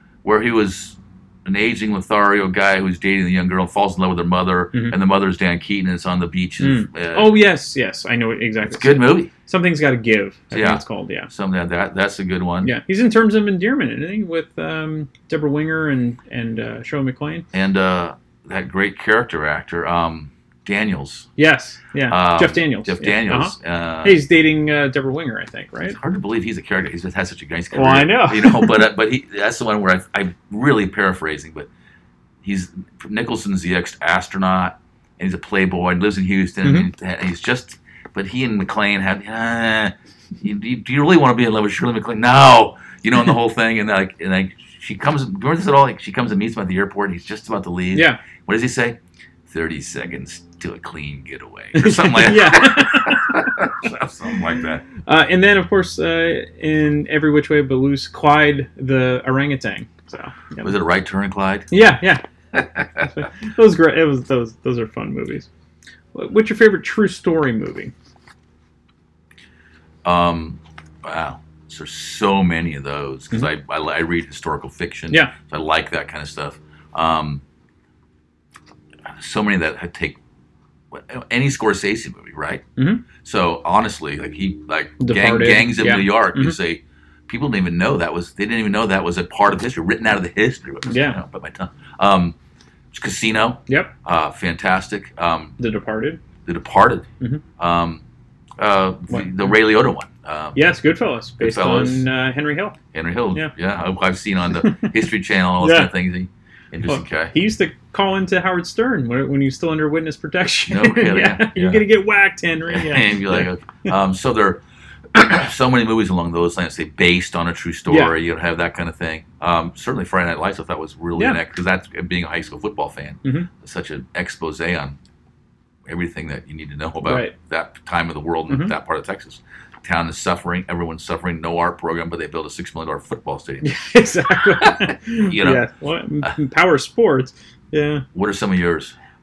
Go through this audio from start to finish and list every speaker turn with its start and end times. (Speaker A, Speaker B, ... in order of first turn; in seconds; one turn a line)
Speaker A: 0.2-7.4
Speaker B: 6.6-11.3
Speaker A: 8.6-9.3
Speaker A: 10.5-12.7
Speaker B: 12.6-17.4
Speaker A: 17.5-21.3
Speaker B: 21.4-26.0
Speaker A: 22.1-24.2
Speaker A: 25.9-31.7
Speaker B: 27.7-28.9
Speaker A: 32.4-54.9
Speaker B: 36.6-36.9
Speaker B: 47.9-48.2
Speaker B: 51.8-53.6
Speaker B: 55.0-60.7
Speaker A: 60.6-61.7
Speaker B: 61.7-62.2
Speaker A: 62.5-63.1
Speaker B: 63.1-65.5
Speaker B: 66.1-67.9
Speaker A: 70.0-77.4
Speaker A: 79.2-80.2
Speaker A: 80.9-82.6
Speaker B: 82.8-83.0
Speaker A: 83.2-92.3
Speaker B: 85.0-86.6
Speaker B: 90.9-91.2
Speaker A: 92.9-95.6
Speaker B: 95.6-96.2
Speaker A: 96.5-97.1
Speaker A: 97.6-98.0
Speaker A: 98.6-100.7
Speaker B: 99.1-99.6
Speaker B: 100.5-102.8
Speaker A: 101.4-102.1
Speaker A: 102.9-107.3
Speaker B: 105.6-105.9
Speaker B: 106.9-113.5
Speaker A: 110.7-111.8
Speaker A: 112.7-125.0
Speaker B: 117.9-118.1
Speaker A: 125.9-133.8
Speaker B: 127.0-127.3
Speaker B: 133.6-138.1
Speaker A: 134.6-135.7
Speaker A: 138.1-139.0